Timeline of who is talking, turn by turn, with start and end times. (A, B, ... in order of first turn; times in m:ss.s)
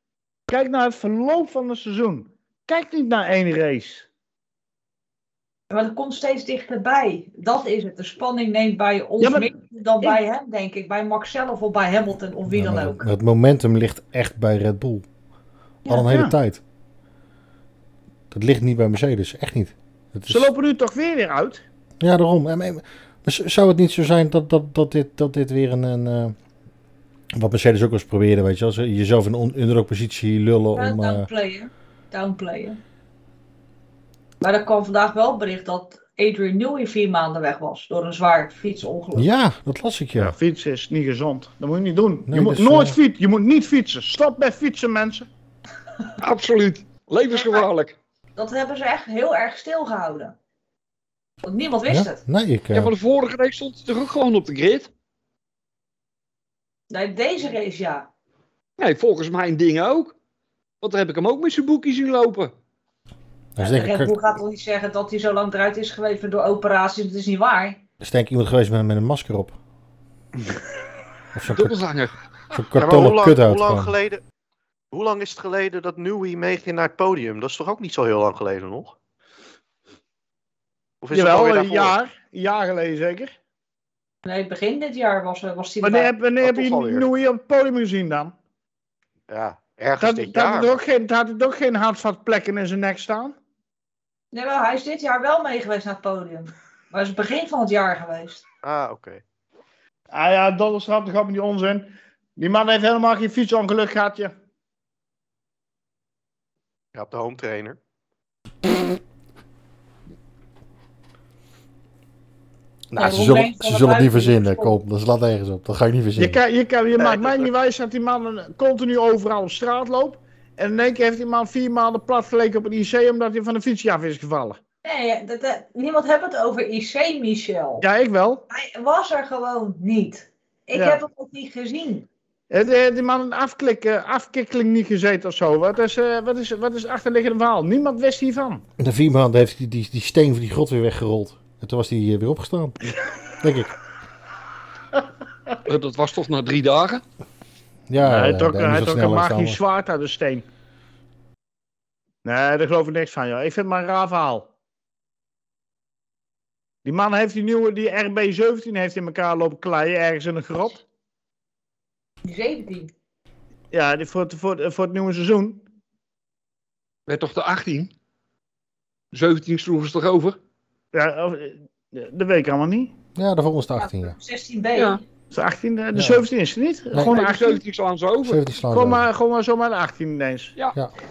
0:00.5-0:04.1 A
0:05.7-0:13.0 B
0:09.2-0:09.5 A
0:12.5-0:15.0 C
0:15.9-0:16.6 C
0:16.0-0:16.3 A
0:18.3-0:20.5 C
0:20.3-0:21.6 A
0:22.0-0:26.4 C
0:27.3-0:31.3 C
0:30.8-0:32.8 B
0:34.4-0:39.3 B
0:39.2-0:40.4 C
0:40.2-0:45.3 A
0:42.3-0:43.0 C
0:46.2-0:48.0 D
0:47.3-0:47.6 B
0:48.4-0:50.4 B
0:51.4-0:52.2 B
0:51.9-0:52.9 C
0:52.7-0:54.9 D
0:56.9-0:58.1 B
0:58.8-1:00.2 D
1:00.8-1:02.5 D
1:03.6-1:04.2 C
1:03.6-1:07.8 B
1:08.0-1:09.6 C
1:11.3-1:11.8 C
1:11.5-1:12.2 D
1:12.5-1:13.9 C
1:12.8-1:14.2 E
1:14.9-1:19.0 E
1:21.0-1:22.0 E
1:21.1-1:23.3 A
1:24.2-1:26.1 B
1:25.8-1:28.3 A
1:26.4-1:27.1 E
1:29.3-1:30.8 E
1:30.0-1:33.4 A
1:34.3-1:38.4 B
1:38.6-1:39.2 E
1:40.1-1:44.3 A
1:46.9-1:47.8 E
1:52.9-1:56.4 C
1:53.0-1:54.8 B
1:56.2-2:04.6 A
1:57.0-1:57.5 E
2:04.8-2:07.8 B
2:07.8-2:08.4 A
2:08.5-2:12.1 B
2:10.7-2:11.0 A
2:12.5-2:18.6 A
2:18.8-2:22.8 C
2:23.4-2:23.8 C
2:25.6-2:27.0 D
2:27.9-2:29.6 C
2:28.0-2:30.4 A
2:32.2-2:34.5 A
2:36.8-2:40.8 A
2:42.2-2:42.9 B
2:43.7-2:45.6 A
2:47.1-2:47.9 D
2:49.1-2:50.4 D
2:50.9-2:53.0 A
2:53.2-2:54.2 C
2:53.8-2:55.0 B
2:54.8-2:55.0 D
2:55.3-2:57.6 A
2:56.0-2:56.2 C
2:57.0-2:58.4 D
2:58.2-2:59.0 C
2:58.7-3:00.6 A